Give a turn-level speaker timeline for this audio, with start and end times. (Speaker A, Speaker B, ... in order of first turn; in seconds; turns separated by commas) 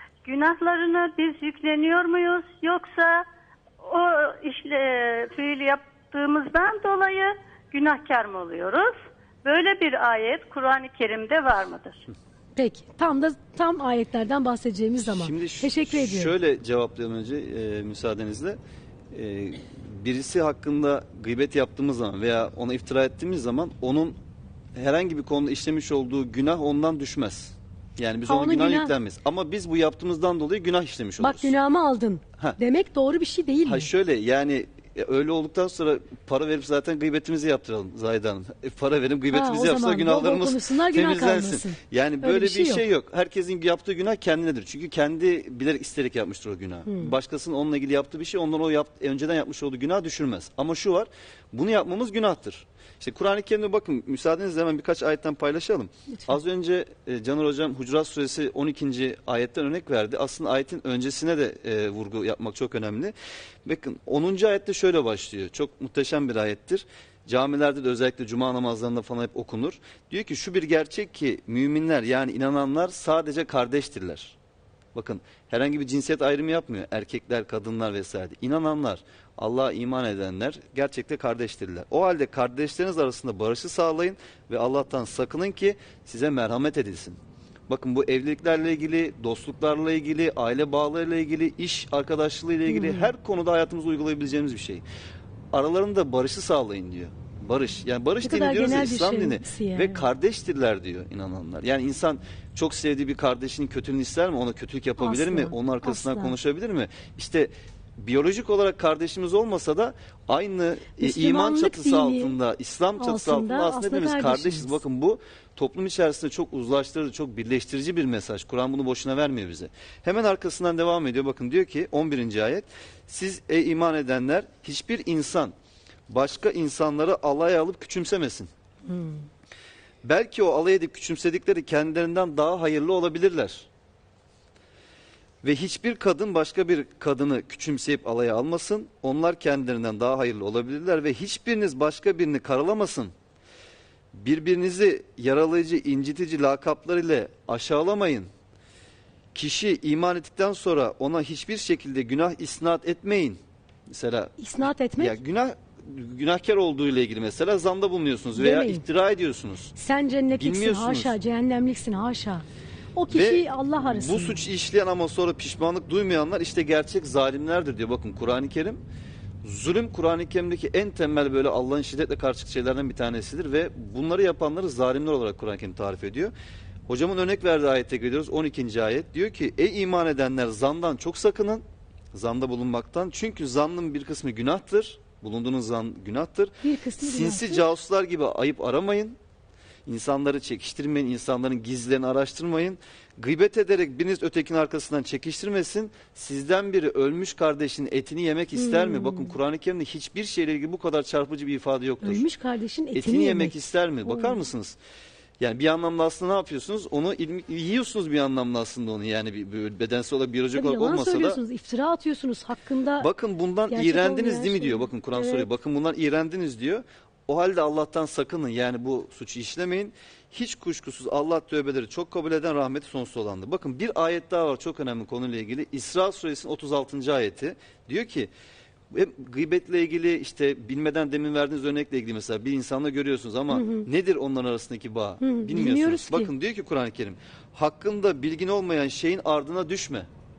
Speaker A: 0.2-3.2, Speaker A: 3.8-8.9, Speaker A: 9.4-12.0, Speaker B: 12.5-16.3, Speaker C: 15.0-18.6, Speaker C: 19.1-24.2, Speaker C: 24.8-31.5, Speaker B: 28.3-28.9, Speaker B: 31.2-33.9, Speaker C: 33.6-63.1, Speaker B: 39.3-42.8, Speaker B: 46.9-47.1, Speaker B: 56.1-56.4, Speaker C: 63.6-74.4, Speaker C: 74.9-87.2, Speaker C: 87.7-94.8, Speaker B: 92.7-93.1, Speaker C: 95.5-125.5, Speaker B: 98.2-100.0, Speaker B: 105.0-106.4, Speaker B: 111.0-112.3, Speaker B: 113.0-114.8, Speaker C: 126.1-128.5, Speaker B: 128.8-129.2, Speaker C: 130.0-133.7, Speaker C: 135.4-143.1, Speaker C: 144.1-148.3, Speaker C: 149.3-154.3, Speaker B: 154.4-155.2, Speaker C: 155.0-159.7, Speaker B: 158.3-158.8, Speaker B: 159.7-164.4, Speaker C: 160.4-161.2, Speaker C: 163.1-168.8, Speaker C: 169.4-176.3, Speaker C: 176.9-189.2, Speaker B: 186.6-187.6, Speaker C: 189.8-202.2, Speaker B: 198.5-199.3, Speaker B: 202.0-204.4, Speaker C: 202.9-204.8, Speaker C: 205.4-211.4, Speaker B: 210.5-213.1, Speaker C: 213.0-228.3, Speaker B: 213.7-215.5, Speaker C: 228.9-240.1, Speaker B: 233.5-233.9, Speaker B: 235.2-236.3